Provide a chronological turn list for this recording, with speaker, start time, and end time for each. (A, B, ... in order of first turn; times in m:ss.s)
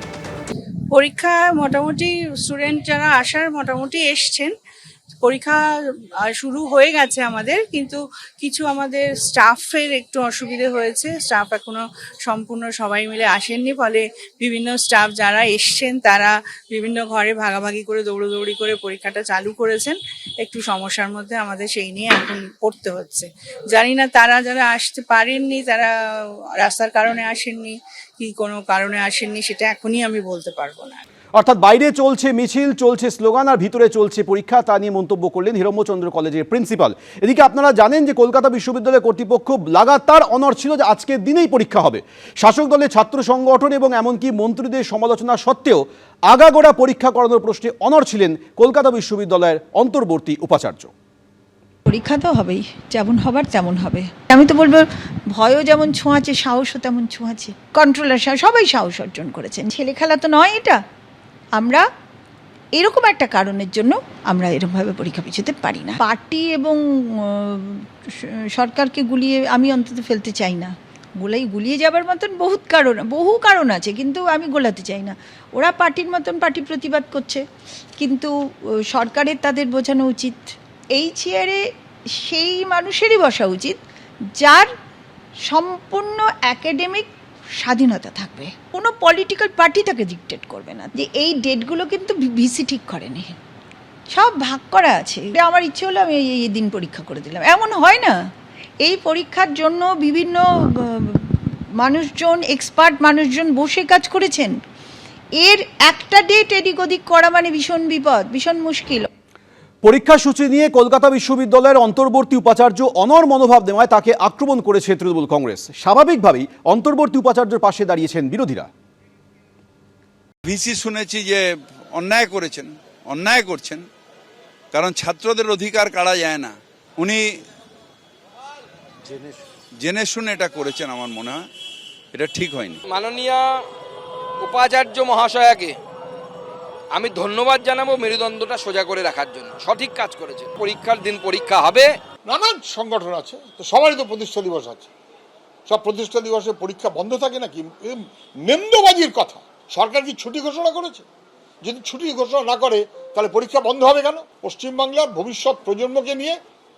0:00.9-0:04.5 A
0:05.2-0:31.0 A
0:31.4-0:50.9 B
0:51.9-1:00.8 C
1:01.6-1:01.8 C
1:02.8-1:17.4 C
1:18.0-1:18.3 C
1:18.9-1:20.4 C
1:20.9-1:21.6 C
1:22.2-1:23.8 C
1:24.4-1:24.7 C
1:25.5-1:27.1 C
1:27.6-1:33.4 C
1:34.1-1:38.1 C
1:38.8-1:44.5 C
1:45.4-1:49.1 C
1:49.8-1:58.7 B
2:00.4-2:03.8 D
2:04.7-2:07.3 D
2:09.8-2:11.4 D
2:12.1-2:12.8 D
2:12.9-2:13.6 E
2:14.4-2:15.8 E
2:16.9-2:22.0 E
2:22.2-2:24.9 F
2:25.6-2:31.0 F
2:31.6-2:36.4 F